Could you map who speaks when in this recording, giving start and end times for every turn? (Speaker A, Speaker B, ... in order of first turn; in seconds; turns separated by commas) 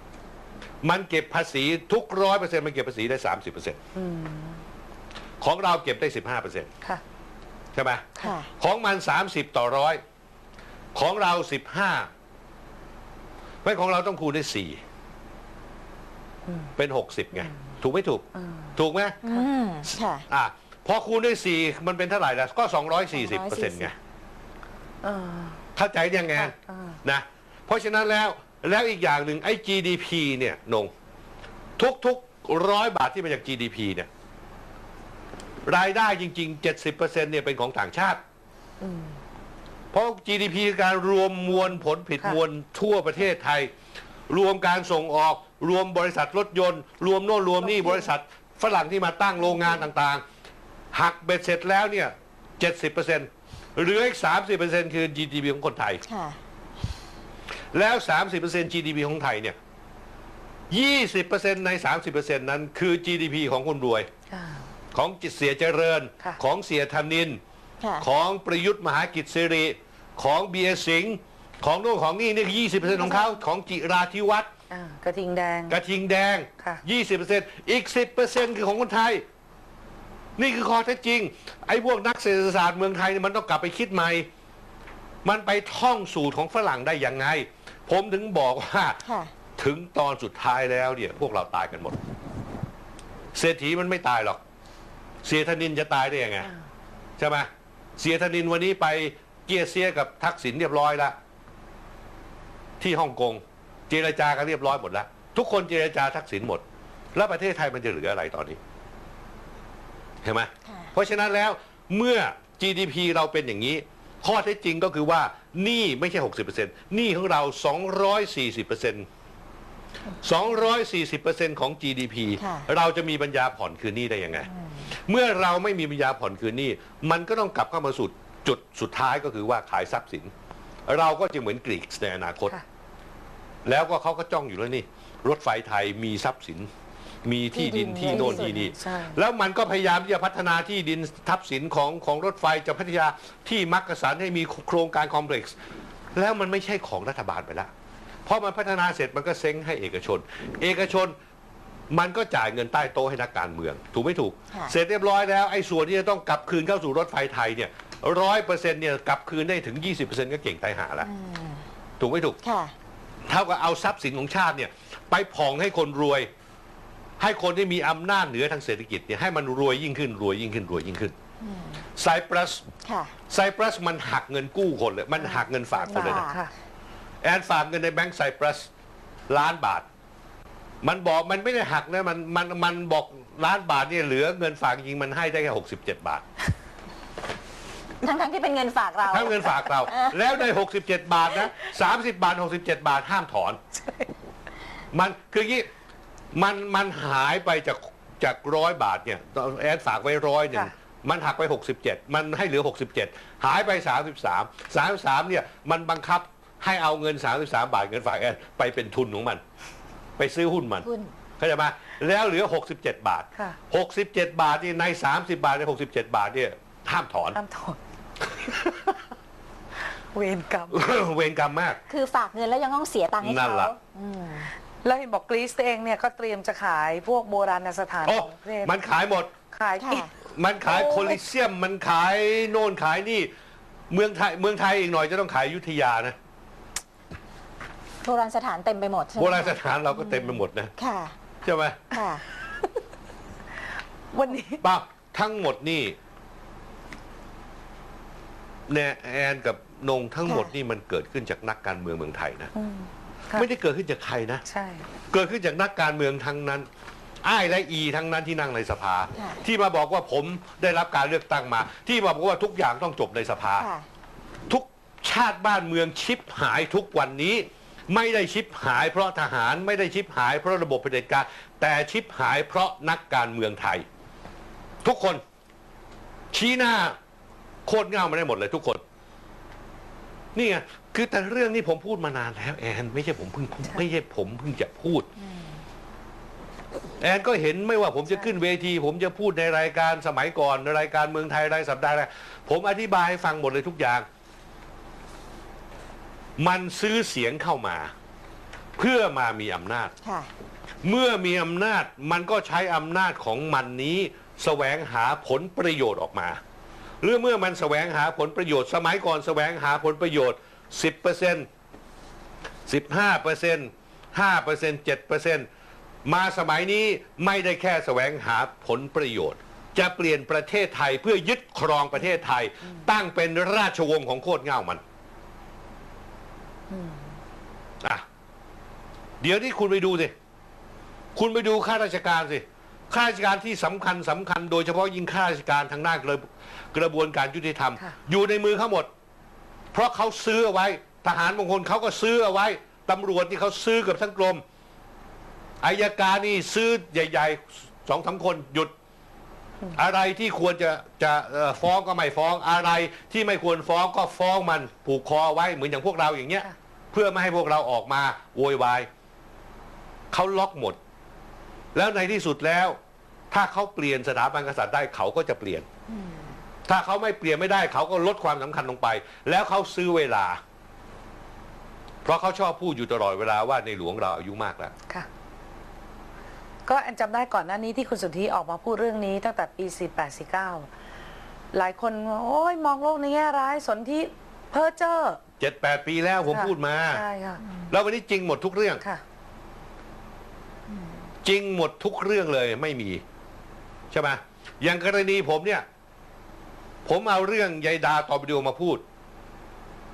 Speaker A: 0.8-3.8, Speaker B: 4.0-4.6, Speaker A: 5.4-6.7, Speaker A: 7.7-8.1, Speaker C: 8.2-8.5, Speaker A: 8.6-10.0, Speaker A: 10.9-12.1, Speaker A: 13.6-14.8, Speaker B: 16.5-16.7, Speaker A: 16.8-18.2, Speaker B: 18.4-18.8, Speaker A: 18.8-19.2, Speaker C: 19.2-20.3, Speaker A: 20.3-23.9, Speaker C: 23.1-23.9, Speaker B: 25.0-25.6, Speaker A: 25.8-30.9, Speaker B: 26.4-27.0, Speaker A: 31.8-34.1, Speaker A: 35.7-38.2, Speaker B: 38.8-39.2, Speaker A: 39.9-43.7, Speaker A: 44.3-50.2, Speaker A: 50.9-56.0, Speaker C: 56.1-56.4, Speaker A: 57.7-59.6, Speaker A: 60.7-64.1, Speaker B: 64.3-64.7, Speaker A: 64.9-67.4, Speaker C: 67.8-68.1, Speaker A: 68.0-74.5, Speaker B: 74.7-75.8, Speaker A: 75.7-79.2, Speaker A: 80.4-84.3, Speaker A: 85.2-89.0, Speaker C: 89.0-89.3, Speaker A: 89.6-92.0, Speaker A: 93.3-94.4, Speaker A: 95.2-96.5, Speaker A: 97.2-101.2, Speaker A: 102.8-108.6, Speaker A: 110.2-119.1, Speaker C: 110.7-110.9, Speaker A: 120.2-130.3, Speaker C: 122.4-122.7, Speaker C: 124.5-124.9, Speaker A: 130.9-132.6, Speaker A: 133.7-136.7, Speaker A: 137.2-145.6, Speaker C: 137.5-138.7, Speaker B: 138.1-139.2, Speaker A: 146.2-147.7, Speaker A: 148.3-151.2, Speaker A: 151.9-161.1, Speaker C: 161.0-161.7, Speaker A: 162.0-162.4, Speaker C: 162.4-162.7, Speaker A: 163.3-166.3, Speaker A: 167.2-171.2, Speaker C: 171.4-171.8, Speaker A: 172.0-172.7, Speaker C: 172.8-173.1, Speaker A: 173.3-176.3, Speaker B: 175.2-176.5, Speaker C: 175.9-176.4, Speaker A: 177.2-178.7, Speaker A: 179.3-179.9, Speaker A: 180.8-186.2, Speaker C: 188.0-190.2, Speaker A: 189.1-193.6, Speaker A: 194.9-195.7, Speaker A: 196.3-209.4, Speaker A: 210.2-210.9, Speaker C: 210.8-211.1, Speaker A: 211.4-217.4, Speaker B: 217.3-217.8, Speaker A: 218.4-218.9, Speaker B: 220.1-220.8, Speaker A: 220.7-221.8, Speaker C: 221.9-224.5, Speaker A: 223.2-223.7, Speaker B: 224.8-228.8, Speaker A: 228.1-229.3, Speaker B: 229.5-230.1, Speaker C: 229.8-230.1, Speaker A: 230.3-233.3, Speaker B: 230.8-231.1, Speaker A: 233.9-236.2, Speaker C: 238.0-241.2, Speaker A: 239.2-240.7, Speaker A: 241.4-241.9, Speaker C: 241.9-242.2, Speaker B: 244.1-244.6, Speaker A: 244.6-246.0, Speaker A: 248.7-252.5, Speaker B: 252.6-253.5, Speaker A: 253.3-254.4, Speaker B: 254.5-254.9, Speaker A: 255.1-256.7, Speaker A: 257.2-263.7, Speaker C: 259.2-259.4, Speaker C: 263.6-263.9, Speaker A: 264.5-273.9, Speaker A: 274.8-275.2, Speaker A: 276.3-277.0, Speaker A: 277.7-278.8, Speaker A: 280.4-285.1, Speaker C: 285.2-285.6, Speaker A: 287.0-294.1, Speaker A: 296.4-297.9, Speaker A: 298.8-299.9, Speaker C: 300.0-300.3, Speaker A: 300.8-306.4, Speaker A: 307.0-311.5, Speaker A: 312.7-315.5, Speaker A: 316.1-324.8, Speaker B: 326.7-327.1, Speaker A: 329.2-330.1, Speaker A: 331.1-338.9, Speaker A: 339.7-344.4, Speaker A: 345.6-348.7, Speaker A: 349.7-358.9, Speaker A: 360.1-360.8, Speaker A: 361.8-362.8, Speaker A: 363.3-365.7, Speaker C: 365.9-366.4, Speaker A: 366.7-370.4, Speaker A: 372.0-374.7, Speaker B: 376.7-380.7, Speaker B: 381.5-385.2, Speaker A: 385.4-387.0, Speaker B: 386.3-387.4, Speaker A: 387.7-388.8, Speaker A: 391.2-393.0, Speaker A: 393.9-395.6, Speaker A: 396.9-398.8